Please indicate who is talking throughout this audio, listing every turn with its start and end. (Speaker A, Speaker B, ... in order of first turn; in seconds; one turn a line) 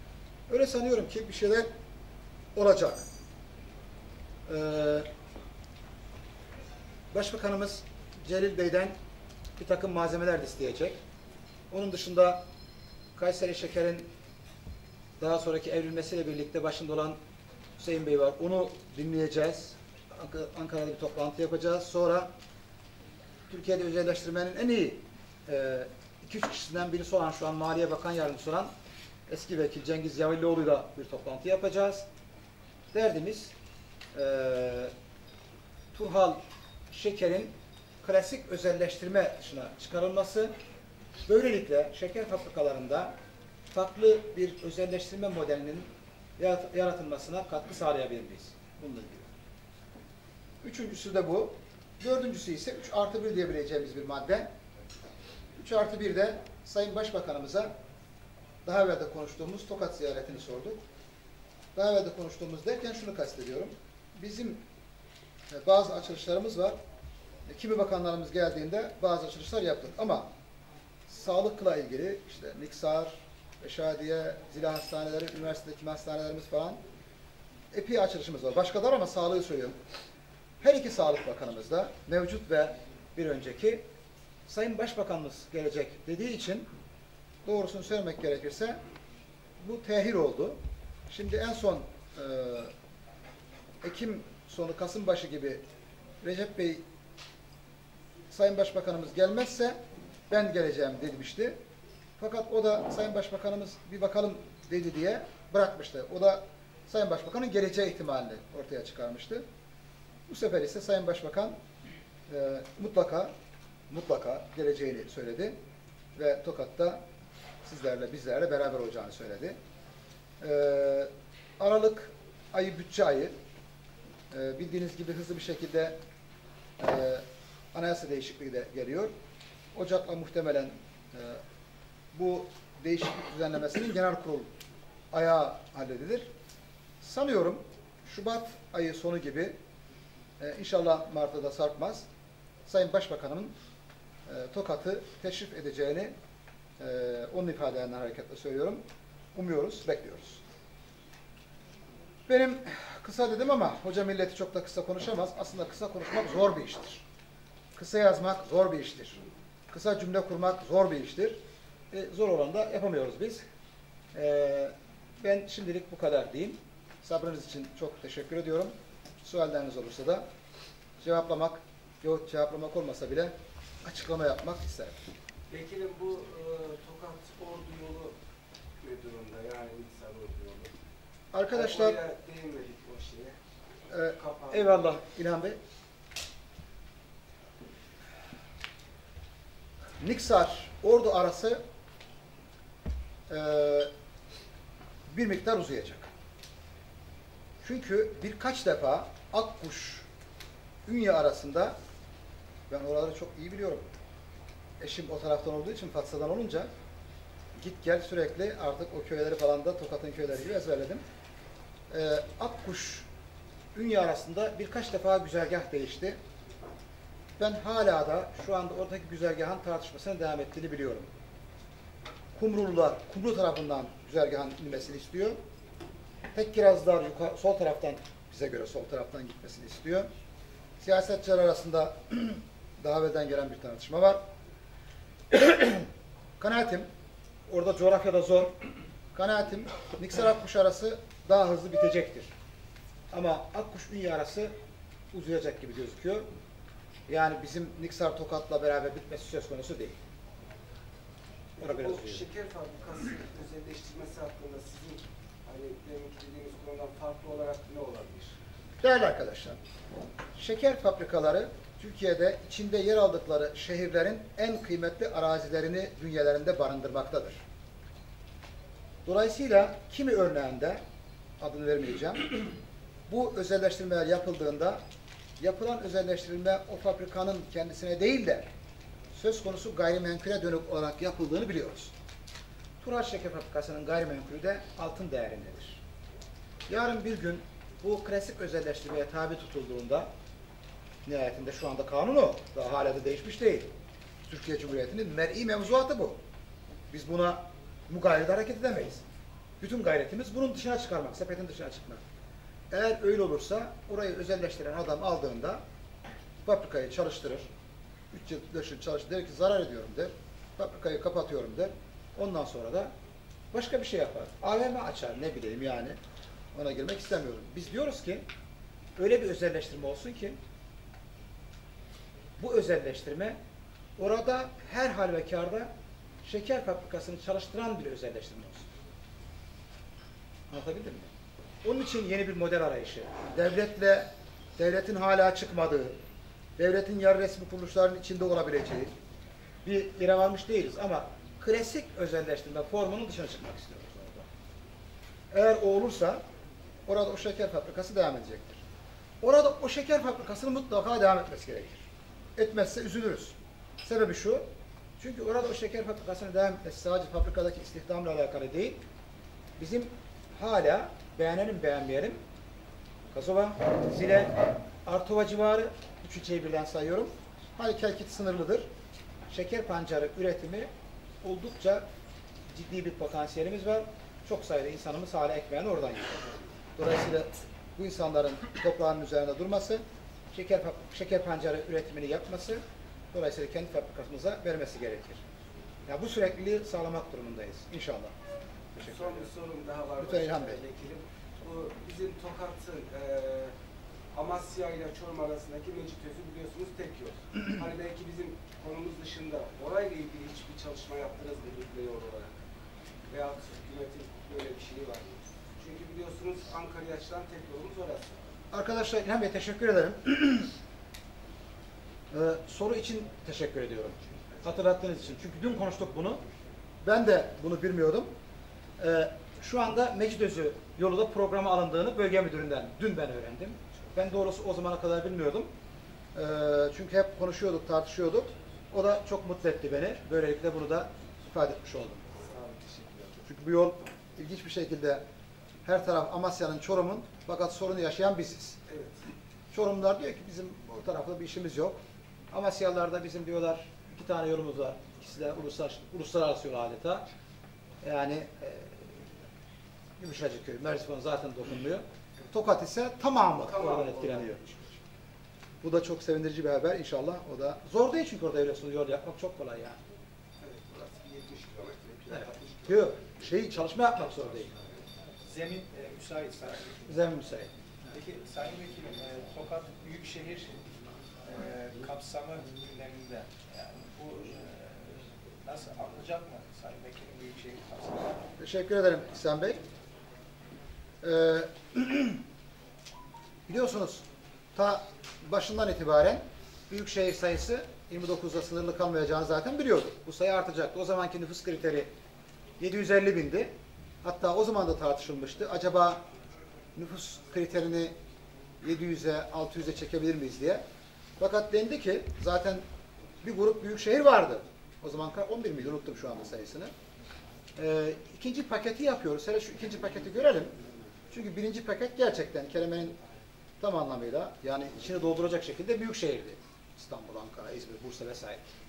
Speaker A: 0.5-1.7
Speaker A: 2.5-3.0
Speaker A: 4.5-5.1
Speaker A: 7.1-8.9
Speaker A: 9.6-11.0
Speaker A: 11.7-12.4
Speaker A: 13.2-14.1
Speaker A: 15.2-17.2
Speaker A: 17.8-22.3
Speaker A: 23.5-28.7
Speaker A: 29.3-32.0
Speaker A: 32.9-33.5
Speaker A: 34.1-34.9
Speaker A: 35.9-40.5
Speaker A: 41.2-43.1
Speaker A: 43.7-49.3
Speaker A: 50.6-54.5
Speaker A: 55.5-57.7
Speaker A: 58.6-60.8
Speaker A: 61.7-64.6
Speaker A: 65.5-66.8
Speaker A: 67.5-70.3
Speaker A: 71.1-76.8
Speaker A: 77.7-79.8
Speaker A: 80.6-83.8
Speaker A: 84.5-86.7
Speaker A: 87.4-88.8
Speaker A: 89.6-92.7
Speaker A: 93.8-95.6
Speaker A: 96.2-96.8
Speaker A: 98.3-101.6
Speaker A: 102.2-109.4
Speaker A: 110.3-111.5
Speaker A: 112.3-113.3
Speaker A: 113.9-115.5
Speaker A: 116.2-117.0
Speaker A: 117.6-119.5
Speaker A: 120.4-123.3
Speaker A: 124.3-126.0
Speaker A: 126.8-129.1
Speaker A: 129.7-131.4
Speaker A: 132.1-134.5
Speaker A: 135.1-136.3
Speaker A: 137.0-139.6
Speaker A: 140.4-142.1
Speaker A: 142.7-143.5
Speaker A: 144.2-146.1
Speaker A: 146.8-148.8
Speaker A: 149.3-150.4
Speaker A: 152.3-157.0
Speaker A: 157.8-161.4
Speaker A: 161.9-163.4
Speaker A: 164.1-170.2
Speaker A: 171.0-175.0
Speaker B: 175.5-178.2
Speaker B: 178.8-180.7
Speaker A: 181.3-182.0
Speaker B: 181.5-183.4
Speaker A: 183.9-185.6
Speaker B: 184.2-184.7
Speaker A: 190.0-191.6
Speaker A: 193.3-193.9
Speaker A: 195.1-196.1
Speaker A: 197.6-200.1
Speaker A: 200.8-201.8
Speaker A: 202.7-203.9
Speaker A: 204.8-206.7
Speaker A: 207.5-211.0
Speaker A: 211.9-213.1
Speaker A: 213.7-216.2
Speaker A: 217.4-221.1
Speaker A: 222.3-225.4
Speaker A: 226.3-230.1
Speaker A: 230.8-234.2
Speaker A: 235.3-235.8
Speaker A: 236.4-236.9
Speaker A: 237.5-238.6
Speaker A: 239.1-242.3
Speaker A: 243.1-244.5
Speaker A: 245.1-246.3
Speaker A: 247.1-250.0
Speaker B: 251.6-258.3
Speaker A: 251.6-252.2
Speaker A: 258.8-259.6
Speaker A: 260.3-267.4
Speaker A: 269.1-270.8
Speaker A: 271.4-272.5
Speaker A: 273.1-274.8
Speaker A: 275.4-278.5
Speaker A: 279.1-281.9
Speaker A: 282.8-285.8
Speaker A: 286.7-290.1
Speaker A: 291.0-293.7
Speaker A: 294.3-296.2
Speaker A: 296.9-299.1
Speaker A: 299.6-302.0
Speaker A: 302.7-305.6
Speaker A: 306.4-307.5
Speaker A: 308.1-312.9
Speaker A: 313.5-316.0
Speaker A: 316.5-318.2
Speaker A: 318.9-320.4
Speaker A: 322.4-323.4
Speaker A: 324.0-325.7
Speaker A: 326.2-328.7
Speaker A: 330.5-331.1
Speaker A: 331.6-336.0
Speaker A: 336.6-338.9
Speaker A: 339.6-344.3
Speaker A: 345.3-346.2
Speaker A: 346.9-348.6
Speaker A: 349.2-351.8
Speaker A: 352.4-354.4
Speaker A: 355.0-358.8
Speaker A: 359.6-362.2
Speaker A: 363.1-368.7
Speaker A: 369.3-370.7
Speaker A: 371.2-371.9
Speaker A: 372.5-385.2
Speaker A: 385.9-388.1
Speaker A: 388.7-389.2
Speaker B: 388.8-393.5
Speaker A: 390.0-390.6
Speaker B: 394.1-402.4
Speaker B: 403.1-405.1
Speaker B: 405.6-408.2
Speaker A: 408.5-410.5
Speaker A: 412.1-416.2
Speaker A: 416.8-418.1
Speaker A: 418.8-425.5
Speaker A: 426.1-432.0
Speaker B: 432.2-433.1
Speaker A: 433.2-435.0
Speaker A: 435.6-438.6
Speaker B: 438.7-439.0
Speaker A: 439.5-441.8
Speaker A: 442.3-447.0
Speaker A: 447.8-449.0
Speaker A: 450.0-454.5
Speaker B: 453.4-454.6
Speaker A: 455.6-459.8
Speaker B: 460.4-462.6
Speaker A: 462.1-464.5
Speaker C: 465.2-466.9
Speaker A: 466.9-467.5
Speaker C: 467.9-470.6
Speaker C: 471.2-478.2
Speaker A: 478.4-479.6
Speaker A: 481.0-482.2
Speaker A: 483.5-491.9
Speaker A: 492.6-493.5
Speaker A: 494.0-496.0
Speaker A: 496.8-497.9
Speaker A: 498.6-500.6
Speaker A: 501.2-502.6
Speaker A: 503.2-506.7
Speaker A: 507.6-510.5
Speaker A: 511.1-513.0
Speaker A: 513.6-518.5